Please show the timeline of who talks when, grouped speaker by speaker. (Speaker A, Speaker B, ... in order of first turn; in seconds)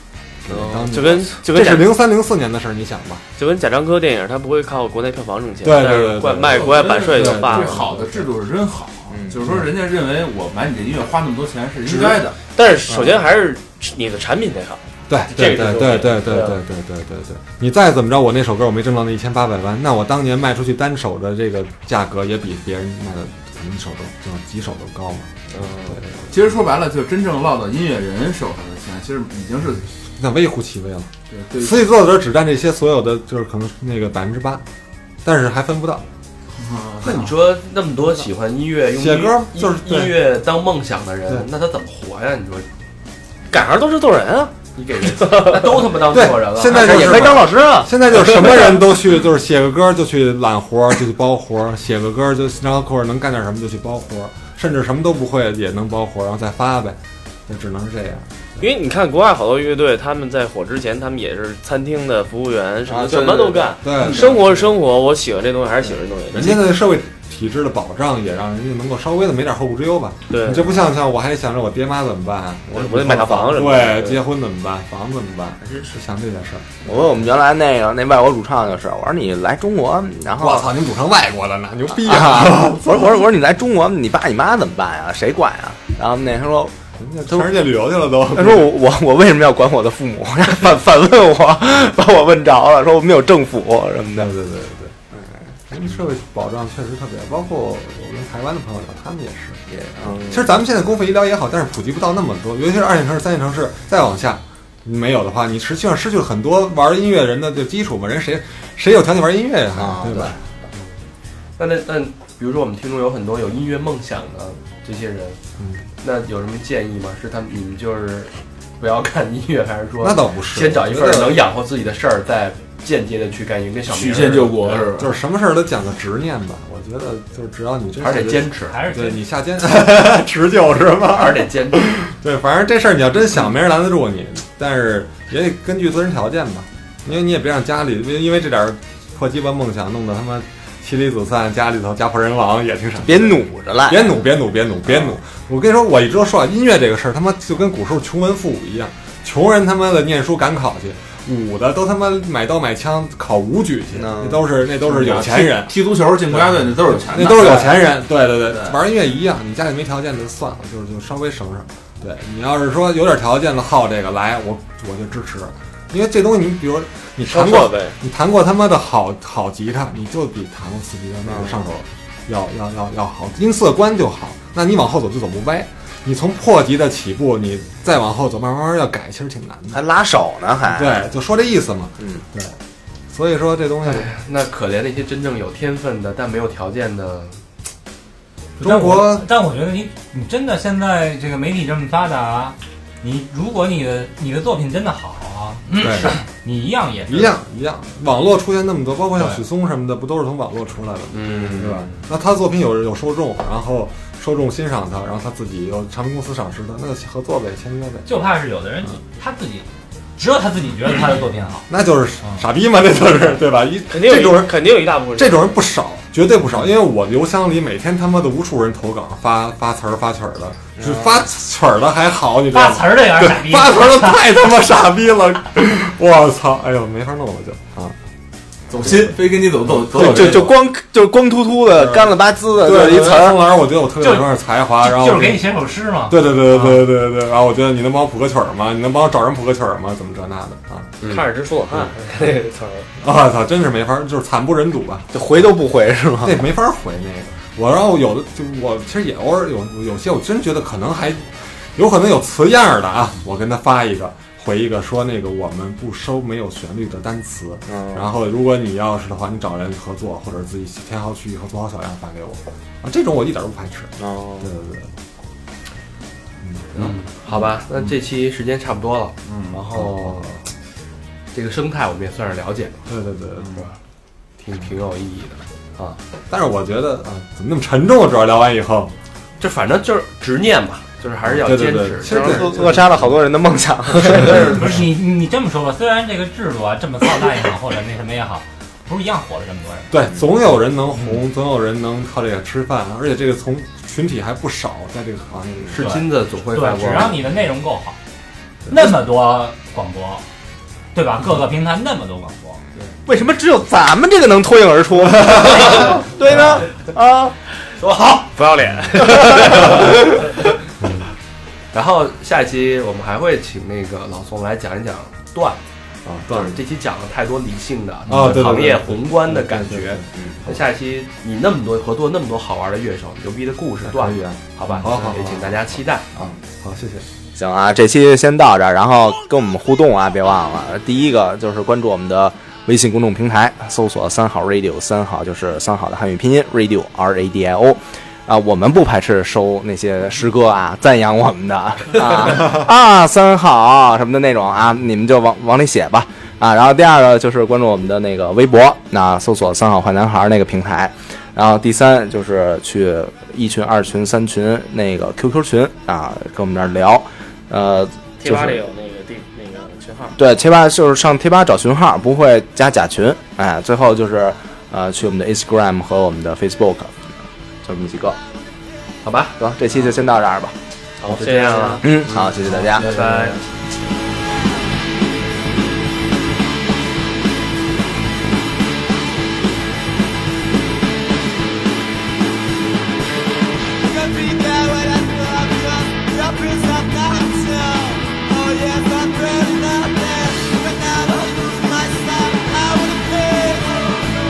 Speaker A: 0.4-3.2, 5.6-8.3, 15.1-25.4, 25.9-26.3, 30.2-34.6, 35.2-36.0, 39.0-40.1, 46.0-58.6, 63.8-64.5, 66.3-76.7, 80.4-83.1, 87.0-88.7, 94.2-95.0, 95.7-99.6, 100.2-110.4, 115.6-115.9, 120.0-121.4, 125.0-155.8, 156.3-179.8, 180.7-182.6, 183.1-184.1, 188.6-189.3, 195.8-196.2, 197.1-208.1, 211.7-228.0, 228.8-230.6, 231.7-240.9, 243.0-245.1, 246.2-264.9, 266.4-267.4, 269.7-270.4, 272.9-273.6, 276.3-278.9, 281.2-283.1, 283.9-284.8, 289.9-295.8, 310.8-311.1, 316.1-316.6, 318.1-320.6, 323.8-327.1
Speaker B: 0.5-1.9, 3.4-7.8, 11.9-16.6, 43.5-44.5, 45.1-45.8, 47.0-47.7, 48.3-48.8, 58.6-66.7, 70.3-70.7, 72.7-74.2, 167.3-167.9, 213.9-215.4, 241.1-242.9, 308.1-310.2, 358.2-360.2, 371.0-372.1, 372.8-373.3
Speaker C: 6.5-12.4, 26.3-29.9, 31.3-31.9, 36.6-37.3, 63.1-64.6, 123.9-125.2, 154.8-157.8, 158.5-158.8, 228.7-230.6, 269.3-269.6, 273.4-273.7
Speaker D: 9.1-9.4, 46.7-48.0, 62.9-63.5, 76.8-80.7, 81.9-86.7, 87.3-87.5, 88.3-94.3, 95.1-95.5, 99.7-100.5, 109.8-110.4, 143.0-144.2, 153.9-154.4, 171.3-171.6, 179.7-181.0, 220.8-221.2, 229.9-233.6, 245.1-246.5, 257.7-258.1, 264.0-264.5, 282.1-284.8, 303.1-307.4, 327.4-358.6, 360.2-367.0, 367.6-368.2, 369.4-370.6, 371.8-372.9
Speaker E: 37.0-42.7, 44.8-47.5, 111.6-115.4, 116.0-124.9, 128.0-128.8, 131.1-132.0, 183.8-187.4, 201.1-202.0, 266.7-270.2, 271.3-272.8, 274.4-276.0, 279.4-282.7, 295.7-297.2, 307.8-308.3, 311.7-315.6, 316.3-326.1, 369.0-369.4, 371.1-373.4, 386.5-387.2, 390.2-390.5, 391.1-392.1, 392.8-393.5
Speaker F: 128.7-129.2, 188.6-197.4, 208.1-209.7, 210.2-211.7, 222.5-224.2, 234.0-236.9, 284.3-289.9, 295.8-298.0, 298.7-300.2, 300.9-302.6